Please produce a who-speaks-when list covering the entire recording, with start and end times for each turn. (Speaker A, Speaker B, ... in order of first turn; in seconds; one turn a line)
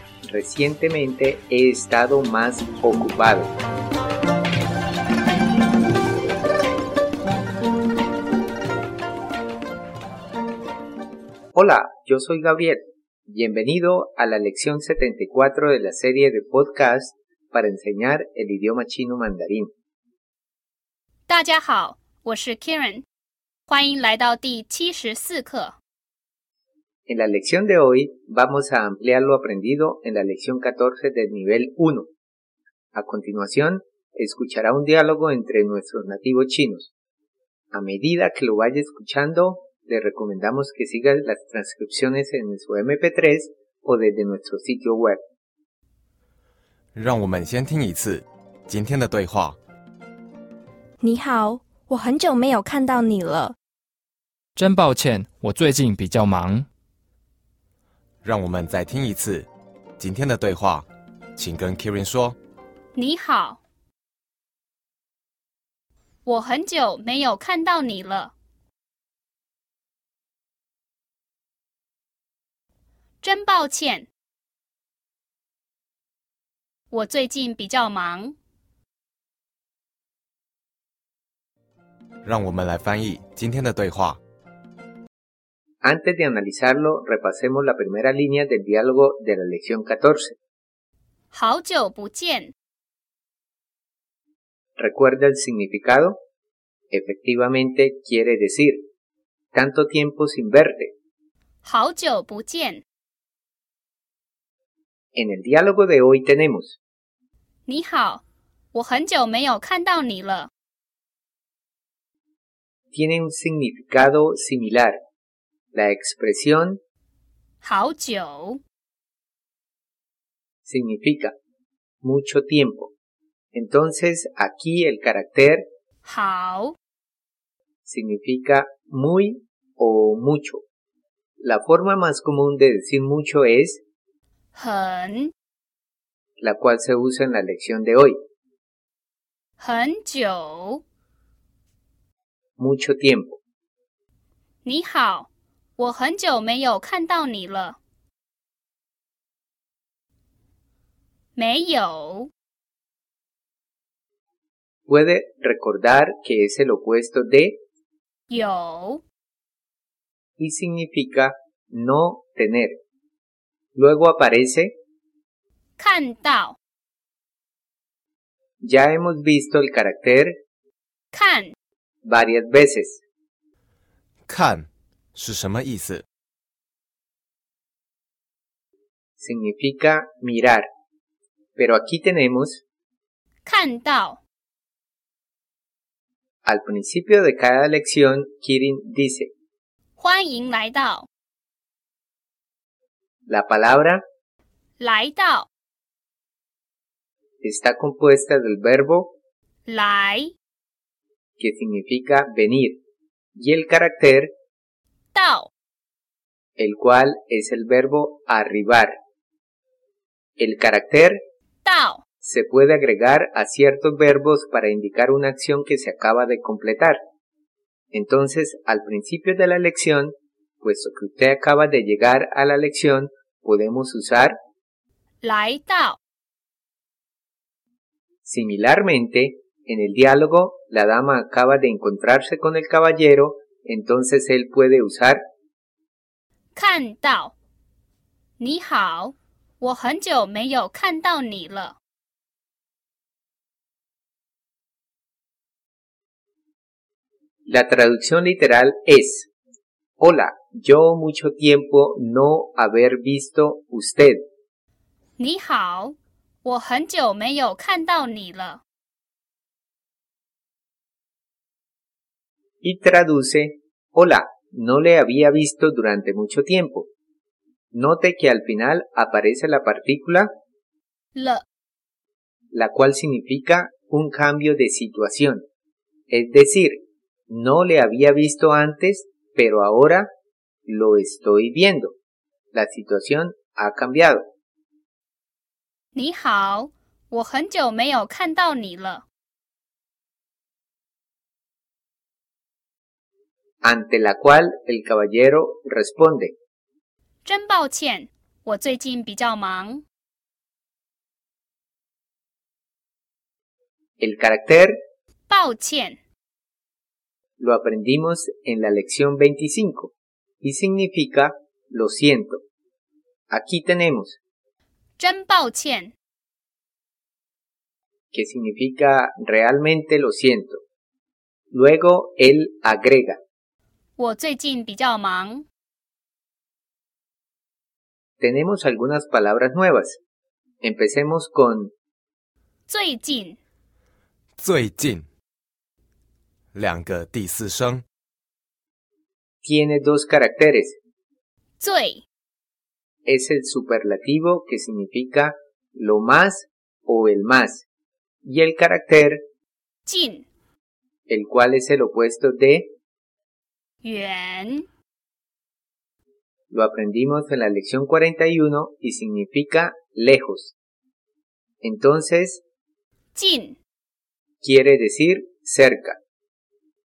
Speaker A: 0.3-3.5
Speaker A: 11.5-19.7
Speaker B: 21.3-23.1
Speaker B: 23.7-25.7
Speaker A: 27.1-32.1
Speaker A: 32.9-36.9
Speaker A: 37.7-45.2
Speaker C: 47.0-49.6
Speaker D: 51.0-53.5
Speaker E: 54.5-56.7
Speaker C: 58.2-59.5
Speaker C: 60.0-60.9
Speaker C: 61.4-62.4
Speaker B: 63.0-63.6
Speaker B: 66.3-68.3
Speaker B: 73.2-74.1
Speaker B: 76.9-78.3
Speaker C: 82.2-84.2
Speaker A: 85.8-90.4
Speaker B: 91.3-92.5
Speaker A: 94.8-96.2
Speaker A: 96.9-98.9
Speaker A: 99.5-100.9
Speaker B: 101.6-102.8
Speaker A: 105.2-106.8
Speaker B: 107.7-108.2
Speaker B: 108.7-110.5
Speaker A: 112.9-115.0
Speaker A: 115.7-116.8
Speaker B: 117.6-118.6
Speaker A: 120.7-121.3
Speaker A: 122.0-122.9
Speaker A: 123.5-125.7
Speaker B: 126.0-126.8
Speaker A: 127.9-130.6
Speaker A: 131.4-133.8
Speaker B: 134.5-135.3
Speaker A: 136.4-138.2
Speaker B: 139.6-140.8
Speaker A: 142.6-143.4
Speaker B: 144.6-147.8
Speaker B: 151.4-152.3
Speaker A: 154.9-157.6
Speaker B: 158.3-159.0
Speaker A: 160.4-162.8
Speaker A: 163.8-164.7
Speaker B: 165.8-166.6
Speaker A: 168.6-170.4
Speaker B: 171.1-171.5
Speaker A: 172.0-173.0
Speaker C: 174.3-176.0
Speaker A: 179.2-180.7
Speaker A: 181.6-182.6
Speaker B: 183.4-184.2
Speaker A: 186.4-189.3
Speaker B: 190.0-191.1
Speaker A: 193.3-194.0
Speaker B: 194.8-195.5
Speaker A: 197.4-199.1
Speaker B: 199.7-200.3
Speaker A: 201.4-202.8
Speaker A: 203.4-204.3
Speaker B: 205.1-205.5
Speaker A: 206.6-208.9
Speaker A: 210.4-211.2
Speaker B: 211.6-212.0
Speaker A: 212.2-217.0
Speaker A: 217.9-224.3
Speaker B: 225.2-226.0
Speaker A: 228.2-235.2
Speaker B: 236.6-237.3
Speaker B: 238.4-241.8
Speaker A: 247.5-249.3
Speaker A: 250.0-254.2
Speaker B: 255.2-258.6
Speaker A: 262.6-266.9
Speaker A: 267.7-270.3
Speaker B: 271.1-271.4
Speaker A: 272.5-275.4
Speaker A: 276.1-280.1
Speaker A: 280.7-281.9
Speaker A: 282.5-284.2
Speaker B: 285.9-289.0
Speaker A: 293.6-296.3
Speaker B: 297.2-299.8
Speaker A: 304.0-304.8
Speaker B: 305.3-306.0
Speaker A: 307.4-312.4
Speaker A: 313.3-314.2
Speaker B: 315.0-315.9
Speaker A: 318.1-320.6
Speaker A: 321.5-323.2
Speaker B: 324.0-325.4
Speaker A: 328.2-330.0
Speaker A: 330.6-331.7
Speaker B: 332.7-333.4
Speaker C: 334.4-335.1
Speaker C: 336.5-337.8
Speaker A: 339.4-340.8
Speaker B: 341.6-342.0
Speaker A: 343.1-347.7
Speaker A: 348.2-349.2
Speaker B: 349.9-350.2
Speaker A: 351.1-352.7
Speaker B: 353.8-354.7
Speaker A: 356.5-360.6
Speaker A: 361.6-362.4
Speaker B: 363.1-363.6
Speaker A: 364.4-366.0